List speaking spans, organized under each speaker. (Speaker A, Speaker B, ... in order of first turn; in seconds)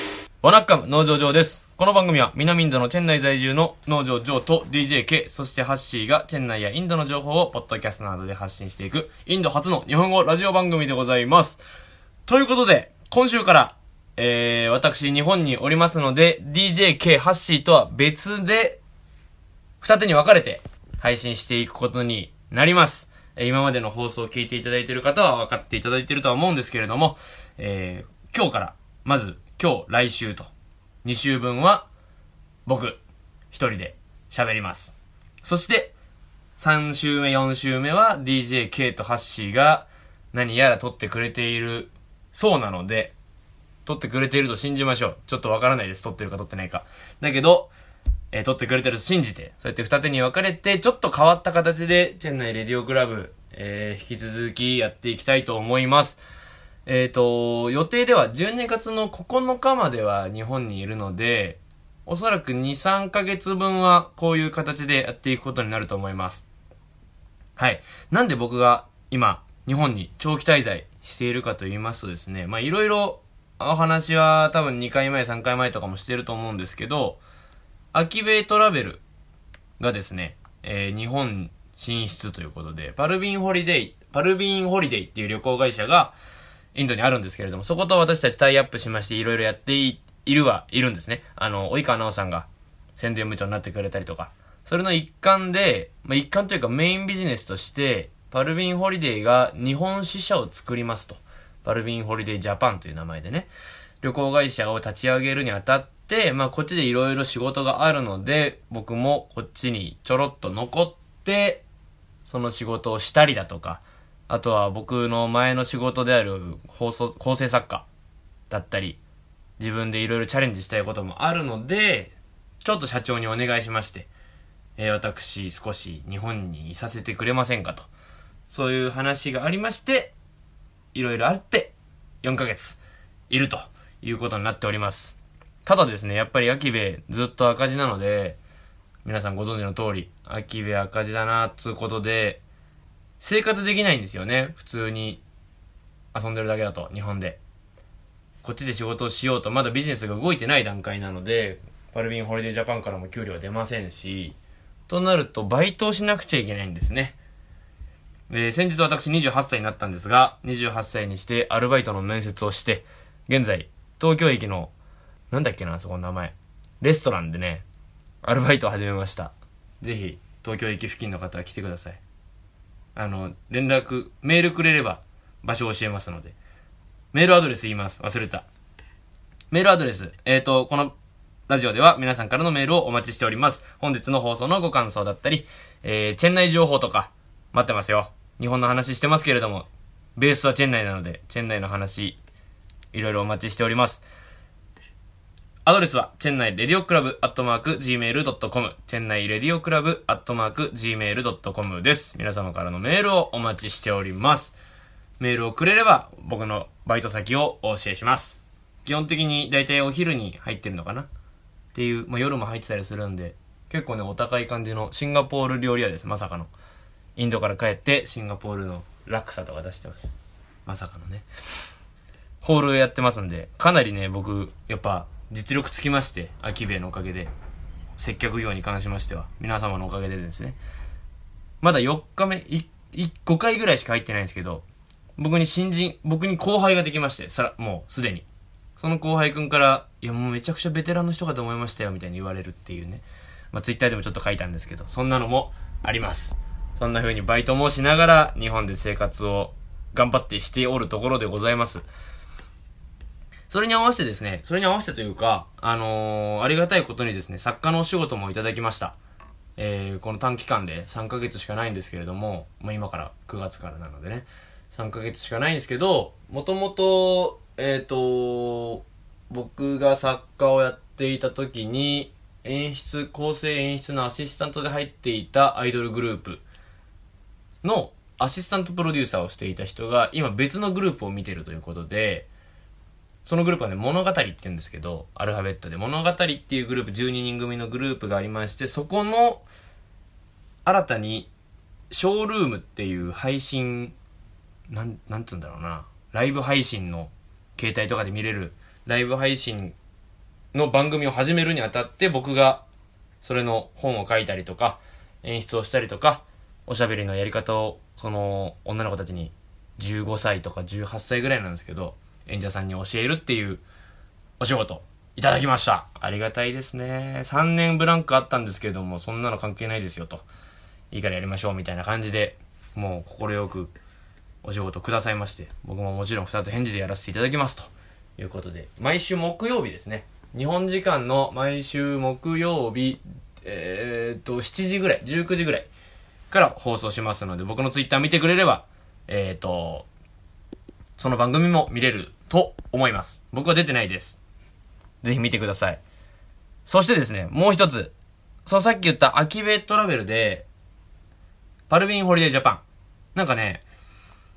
Speaker A: 0.4-11.6, 12.3-18.8, 19.8-30.5, 31.0-31.9, 32.6-33.0, 33.5-34.9, 35.4-35.9, 36.6-43.1, 43.9-47.7, 48.3-56.2, 56.9-66.4, 67.6-77.2, 77.9-79.0, 79.8-86.2, 86.7-103.5, 104.0-111.6, 112.2-117.8, 118.5-119.0, 119.6-124.1, 124.8-127.9, 128.5-130.1, 130.9-138.4, 139.0-142.4, 143.2-145.2, 146.1-147.4, 148.4-154.4, 154.9-157.2, 158.3-164.7, 165.3-167.6, 168.2-172.0, 172.9-176.3, 177.1-178.4, 179.5-180.9, 181.5-192.2, 192.9-194.0, 195.6-204.6, 205.2-211.1, 211.7-216.5, 217.2-220.1, 220.7-221.3, 222.4-227.3, 228.0-230.6, 231.6-234.6, 235.2-238.2, 238.8-251.8, 253.5-258.9, 259.6-276.4, 277.6-282.3, 283.2-289.4, 290.6-291.3, 291.9-293.9, 294.7-299.8, 300.5-302.6, 303.2-313.6, 314.4-320.2, 320.9-323.7, 324.4-335.7, 336.3-339.9, 341.0-344.2, 345.0-345.8, 346.7-347.9, 348.4-350.5, 351.7-352.6, 353.1-353.6